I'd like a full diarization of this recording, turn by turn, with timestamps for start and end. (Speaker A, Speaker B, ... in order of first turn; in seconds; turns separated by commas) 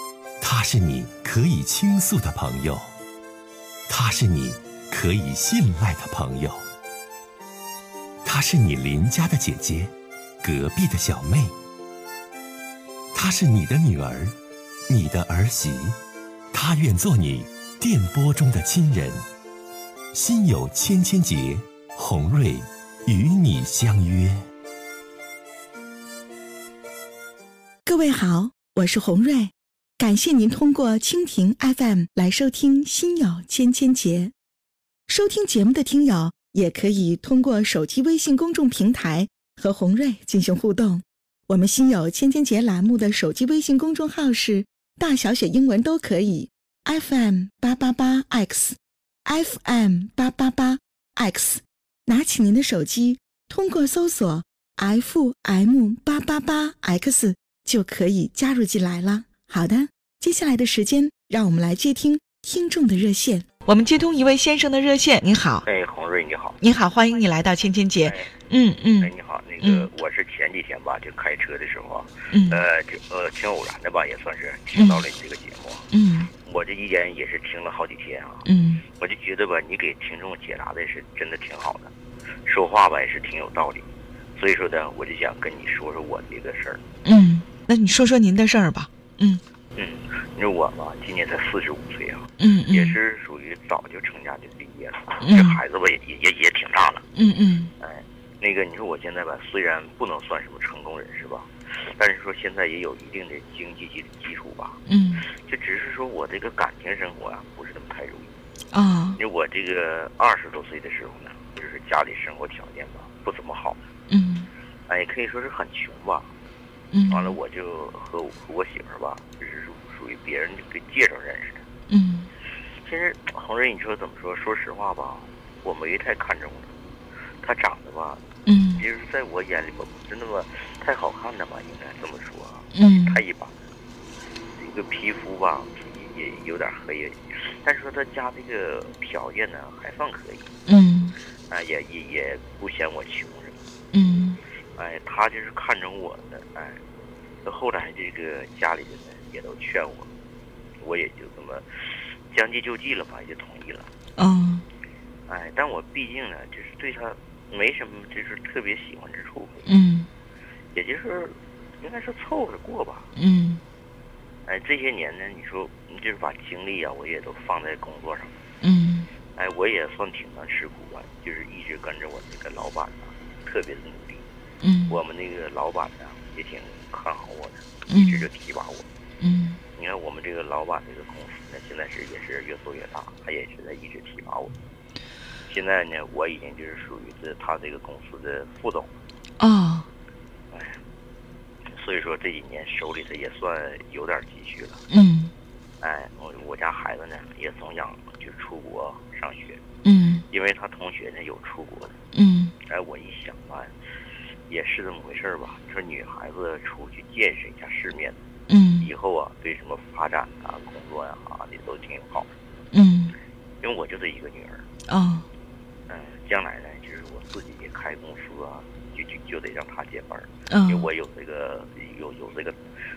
Speaker A: 0.4-2.9, Speaker A: 3.9-6.6, Speaker A: 8.2-9.9, Speaker A: 10.4-11.5, Speaker A: 13.1-14.3, Speaker A: 14.9-16.0, Speaker A: 16.5-19.2, Speaker A: 20.1-24.4, Speaker B: 27.9-34.3, Speaker B: 35.1-65.7, Speaker C: 65.7-66.6, Speaker B: 66.6-69.1, Speaker C: 68.0-68.3, Speaker C: 69.0-75.9, Speaker B: 69.6-69.9, Speaker B: 72.3-72.6, Speaker B: 74.7-75.0, Speaker B: 75.9-76.3, Speaker C: 76.4-81.9, Speaker B: 78.5-78.8, Speaker C: 82.5-83.9, Speaker C: 84.4-86.8, Speaker B: 87.0-89.4, Speaker C: 89.8-97.1, Speaker B: 92.4-93.0, Speaker B: 95.2-95.6, Speaker B: 97.2-97.7, Speaker C: 97.8-104.8, Speaker B: 104.9-105.3, Speaker C: 105.3-108.3, Speaker B: 108.7-109.2, Speaker C: 109.2-113.8, Speaker B: 114.1-114.5, Speaker C: 114.9-116.3, Speaker B: 116.9-117.4, Speaker C: 117.1-121.6, Speaker B: 121.9-122.3, Speaker C: 122.8-126.7, Speaker C: 127.4-128.2, Speaker B: 128.5-128.8, Speaker C: 128.8-133.5, Speaker B: 132.7-133.2, Speaker C: 134.6-140.5, Speaker B: 140.7-141.2, Speaker C: 141.5-143.6, Speaker B: 143.9-144.4, Speaker C: 144.8-146.8, Speaker C: 147.4-150.1, Speaker C: 150.8-151.7, Speaker C: 152.3-153.9, Speaker B: 154.2-154.7, Speaker C: 155.3-159.6, Speaker B: 159.7-160.1, Speaker C: 160.7-163.1, Speaker B: 163.2-163.6, Speaker C: 164.5-168.4, Speaker B: 168.6-169.1, Speaker C: 169.4-174.2, Speaker B: 174.6-175.0, Speaker C: 174.9-178.9, Speaker B: 177.9-178.3, Speaker B: 179.2-179.6, Speaker C: 179.8-184.5, Speaker C: 185.5-189.0, Speaker B: 189.4-189.9, Speaker C: 190.5-190.8, Speaker C: 191.7-194.8, Speaker B: 194.9-195.3, Speaker C: 195.8-199.6, Speaker B: 199.8-200.2, Speaker C: 200.3-202.0, Speaker B: 202.1-202.5, Speaker C: 202.7-203.7, Speaker C: 204.5-208.2, Speaker B: 208.5-208.9, Speaker C: 208.8-212.3, Speaker B: 212.7-213.2, Speaker C: 213.6-214.7, Speaker B: 214.9-215.3, Speaker C: 215.9-222.6, Speaker B: 220.5-220.9